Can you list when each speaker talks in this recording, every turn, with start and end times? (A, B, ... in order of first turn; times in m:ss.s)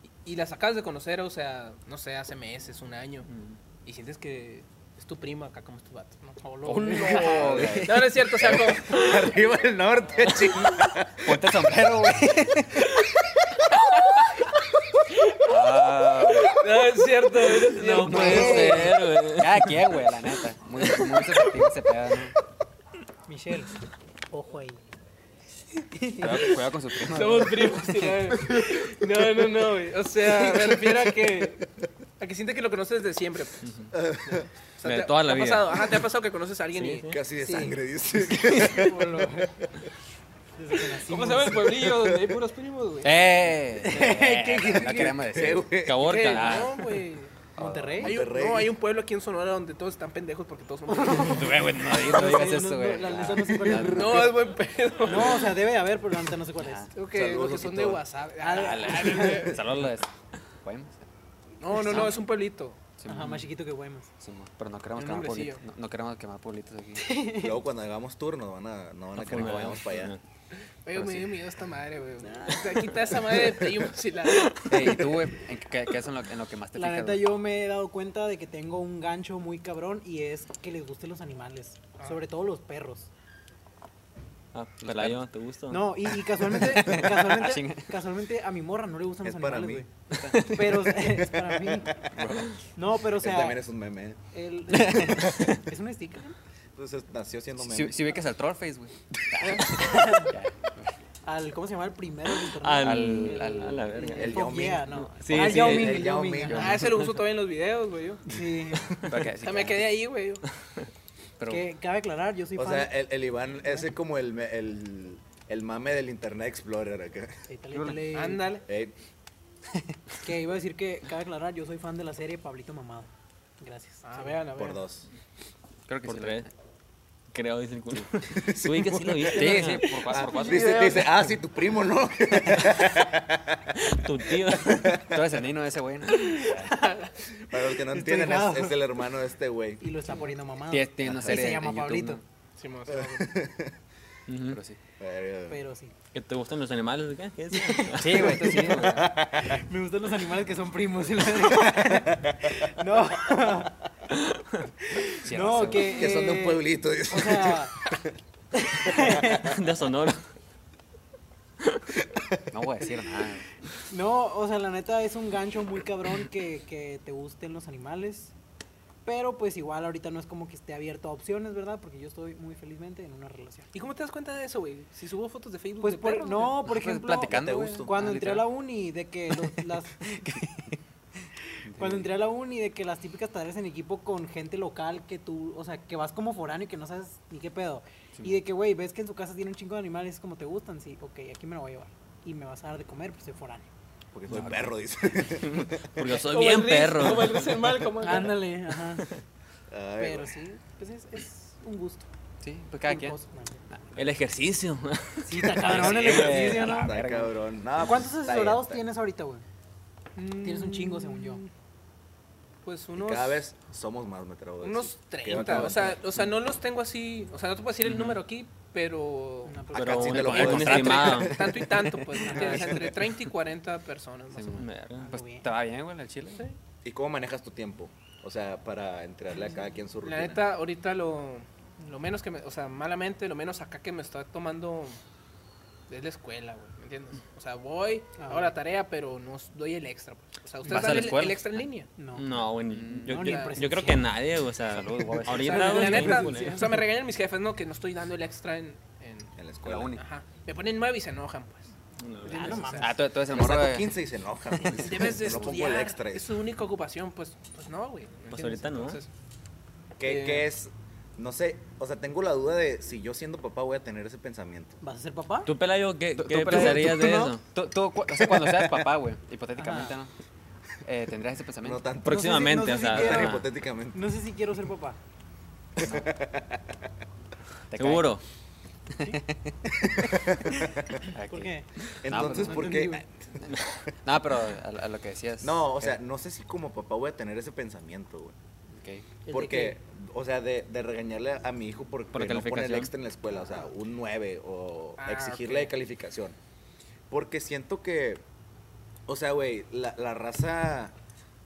0:00.2-0:03.3 A
0:03.8-0:09.2 A
0:06.4-0:07.6 B
0:06.7-0:08.0 C
0:07.0-0:11.4 D
0:11.2-0:12.9 C
0:13.7-0:14.4 A
0:15.4-0:16.6 C
0:15.8-0:16.5 E
0:16.5-0:18.9 A
0:17.7-0:19.9 E
0:18.0-0:19.0 B
0:18.0-0:22.3 C
0:23.3-0:23.7 B
0:24.3-0:24.8 B
0:25.8-0:26.6 B
0:26.2-0:28.0 C
0:27.0-0:31.7 A
0:30.4-0:31.0 D
0:32.2-0:33.6 A
0:33.6-0:33.9 E
0:33.9-0:34.5 D
0:34.3-0:37.1 A
0:34.8-0:35.9 E
0:36.7-0:37.2 E
0:37.1-0:39.4 D
0:37.4-0:37.7 B
0:38.5-0:39.6 B
0:40.6-0:41.8 B
0:41.0-0:43.1 A
0:41.8-0:42.3 D
0:43.0-0:46.8 C
0:43.8-0:45.2 B
0:45.1-0:46.1 D
0:45.8-0:46.8 E
0:46.0-0:47.3 A
0:47.6-0:48.2 B
0:47.6-0:48.0 C
0:48.0-0:48.7 D
0:48.0-0:51.5 A
0:50.9-0:54.3 B
0:51.1-0:54.3 C
0:53.8-0:55.6 A
0:55.0-0:56.9 B
0:56.6-0:56.9 C
0:56.9-0:59.6 A
0:57.1-0:58.0 D
0:58.4-0:59.6 B
0:58.6-1:00.1 C
1:00.6-1:01.0 C
1:01.6-1:02.8 A
1:01.8-1:02.1 C
1:03.0-1:03.5 C
1:03.1-1:04.1 B
1:04.2-1:07.1 C
1:05.0-1:05.6 A
1:07.0-1:07.6 B
1:07.4-1:10.1 D
1:09.2-1:10.2 E
1:09.4-1:09.7 C
1:10.8-1:14.7 A
1:12.2-1:13.0 B
1:14.4-1:15.0 E
1:14.6-1:17.3 C
1:16.8-1:23.1 B
1:24.5-1:26.1 E
1:24.8-1:25.2 C
1:25.7-1:32.0 B
1:26.5-1:27.9 C
1:29.2-1:29.8 D
1:30.1-1:30.4 C
1:30.3-1:30.9 E
1:31.4-1:32.2 D
1:32.2-1:32.5 C
1:32.7-1:33.6 B
1:33.2-1:34.2 D
1:34.3-1:36.4 B
1:34.7-1:35.6 C
1:36.7-1:38.2 D
1:37.6-1:40.8 C
1:39.4-1:39.8 A
1:39.8-1:40.3 B
1:41.2-1:46.8 B
1:42.5-1:44.5 E
1:42.8-1:43.9 C
1:44.1-1:46.8 D
1:45.0-1:46.1 E
1:46.5-1:48.2 A
1:48.3-1:49.0 B
1:49.0-1:49.9 C
1:49.4-1:50.4 A
1:51.4-1:51.7 C
1:51.4-1:52.9 B
1:52.6-1:57.4 D
1:57.5-1:58.6 B
1:57.7-1:58.0 C
1:58.1-1:58.6 A
1:58.6-1:58.9 D
2:00.2-2:04.4 B
2:04.0-2:04.8 A
2:04.5-2:05.0 D
2:05.9-2:06.5 C
2:06.0-2:06.5 E
2:07.3-2:09.9 E
2:08.3-2:13.7 D
2:09.2-2:11.0 C
2:10.1-2:11.1 A
2:13.8-2:15.0 E
2:14.6-2:15.2 D
2:15.0-2:16.7 C
2:16.1-2:17.3 A
2:17.5-2:19.8 D
2:17.9-2:18.8 B
2:19.8-2:22.2 B
2:20.7-2:22.2 C
2:21.0-2:21.5 D
2:22.6-2:23.3 A
2:22.9-2:23.7 D
2:24.3-2:24.8 C
2:25.0-2:25.6 D
2:25.5-2:25.9 B
2:26.1-2:28.6 E
2:27.5-2:33.7 B
2:28.0-2:29.1 C
2:28.5-2:29.6 D
2:31.4-2:33.7 D
2:34.3-2:34.6 E
2:34.8-2:37.7 B
2:35.2-2:36.1 C
2:35.8-2:38.1 D
2:38.5-2:39.5 B
2:38.8-2:39.5 D
2:39.4-2:40.3 E
2:42.5-2:43.5 C
2:43.9-2:48.3 B
2:49.0-2:53.7 B
2:53.7-2:56.6 A
2:55.8-3:00.0 B
2:56.7-2:58.5 C
2:57.2-2:58.2 D
2:59.3-3:00.8 C
3:01.6-3:02.1 C
3:01.8-3:13.7 B
3:14.1-3:15.9 D
3:14.3-3:14.7 C
3:15.4-3:17.7 E
3:16.1-3:18.4 A
3:18.0-3:19.0 B
3:18.9-3:19.2 E
3:19.7-3:20.3 D
3:20.0-3:22.1 B
3:22.4-3:23.2 C
3:22.9-3:23.6 B
3:24.0-3:26.8 E
3:25.2-3:26.9 B
3:25.7-3:28.8 D
3:25.9-3:27.3 C
3:27.8-3:29.4 B
3:30.2-3:31.5 A
3:30.4-3:31.4 B
3:32.6-3:33.4 A
3:33.0-3:36.0 D
3:34.6-3:39.8 A
3:37.8-3:38.2 E
3:39.4-3:40.8 B
3:39.7-3:41.4 E
3:39.8-3:41.7 D
3:40.0-3:41.3 C
3:40.6-3:44.6 A
3:42.2-3:42.8 B
3:42.4-3:42.9 D
3:44.3-3:46.4 C
3:44.6-3:45.1 E
3:45.0-3:45.5 B
3:46.8-3:50.4 D
3:50.0-3:55.0 A
3:55.9-4:01.9 A
3:58.2-3:58.5 B
4:00.6-4:01.1 B
4:00.7-4:01.6 C
4:02.0-4:02.4 B
4:02.1-4:06.6 E
4:02.6-4:03.3 C
4:03.0-4:04.1 B
4:03.2-4:03.6 A
4:04.7-4:06.1 C
4:05.3-4:06.8 B
4:05.3-4:09.3 A
4:09.4-4:09.9 D
4:09.6-4:10.0 C
4:10.0-4:11.7 A
4:12.0-4:12.8 E
4:12.2-4:13.0 B
4:12.3-4:12.9 A
4:12.7-4:13.9 C
4:13.3-4:16.4 D
4:14.8-4:19.1 A
4:18.3-4:19.0 E
4:20.0-4:24.8 D
4:20.0-4:20.5 A
4:24.8-4:25.5 B
4:25.4-4:27.4 E
4:26.2-4:30.1 C
4:26.5-4:27.3 B
4:29.6-4:29.9 B
4:30.8-4:31.8 C
4:31.6-4:34.0 D
4:32.0-4:33.4 E
4:32.1-4:33.4 B
4:33.9-4:35.0 B
4:35.8-4:36.8 D
4:35.8-4:36.1 C
4:37.7-4:38.1 C
4:37.7-4:38.2 E
4:38.9-4:40.2 C
4:39.9-4:41.0 D
4:41.1-4:41.5 C
4:41.3-4:43.0 B
4:42.0-4:43.1 D
4:42.0-4:42.8 C
4:43.4-4:46.0 C
4:45.4-4:48.4 D
4:48.7-4:49.0 C
4:49.2-4:49.8 B
4:49.3-4:56.4 D
4:52.1-4:52.9 E
4:55.0-4:55.7 A
4:57.1-4:58.2 D
4:59.1-5:00.9 D